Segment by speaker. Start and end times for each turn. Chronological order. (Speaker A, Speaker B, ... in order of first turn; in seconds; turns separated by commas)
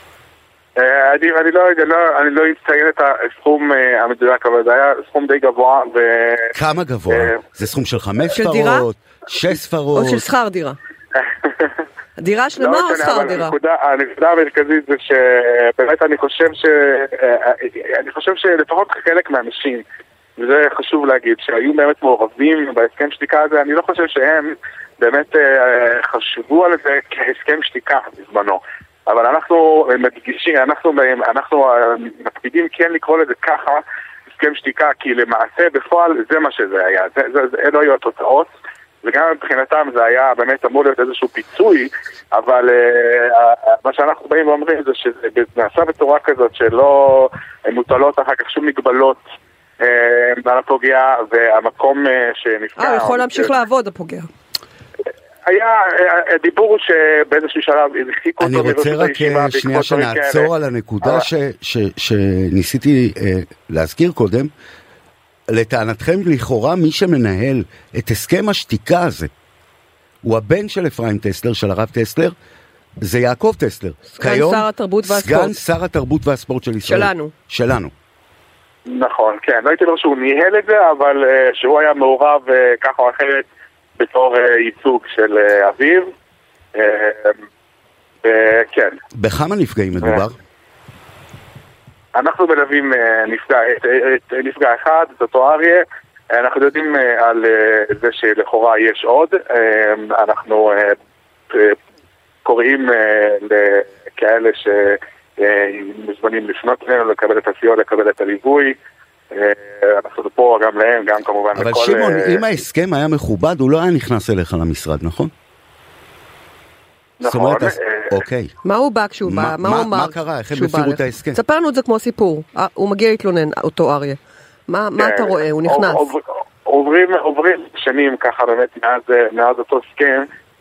Speaker A: 0.8-6.5, Speaker B: 6.5-10.2, Speaker A: 7.1-7.4, Speaker C: 8.3-8.9, Speaker C: 9.9-10.8, Speaker A: 11.4-11.8, Speaker C: 12.2-13.6, Speaker A: 12.6-19.8, Speaker A: 20.4-33.8, Speaker A: 34.3-38.5, Speaker A: 39.0-49.2, Speaker A: 49.8-53.5, Speaker C: 52.8-54.3, Speaker A: 55.5-60.5, Speaker B: 58.4-64.5, Speaker A: 61.0-61.3, Speaker B: 65.5-69.3, Speaker B: 70.2-72.3, Speaker B: 73.0-77.9, Speaker C: 74.1-75.6, Speaker C: 76.8-77.3, Speaker A: 78.9-83.5, Speaker A: 84.0-86.1, Speaker A: 86.8-87.4, Speaker A: 88.2-89.0, Speaker B: 89.2-90.4, Speaker A: 92.2-101.0, Speaker A: 101.5-101.8, Speaker A: 102.5-108.8, Speaker A: 109.3-112.4, Speaker B: 111.5-115.3, Speaker A: 117.2-118.2, Speaker B: 117.2-118.5, Speaker C: 118.6-126.1, Speaker B: 119.2-121.4, Speaker A: 125.0-130.3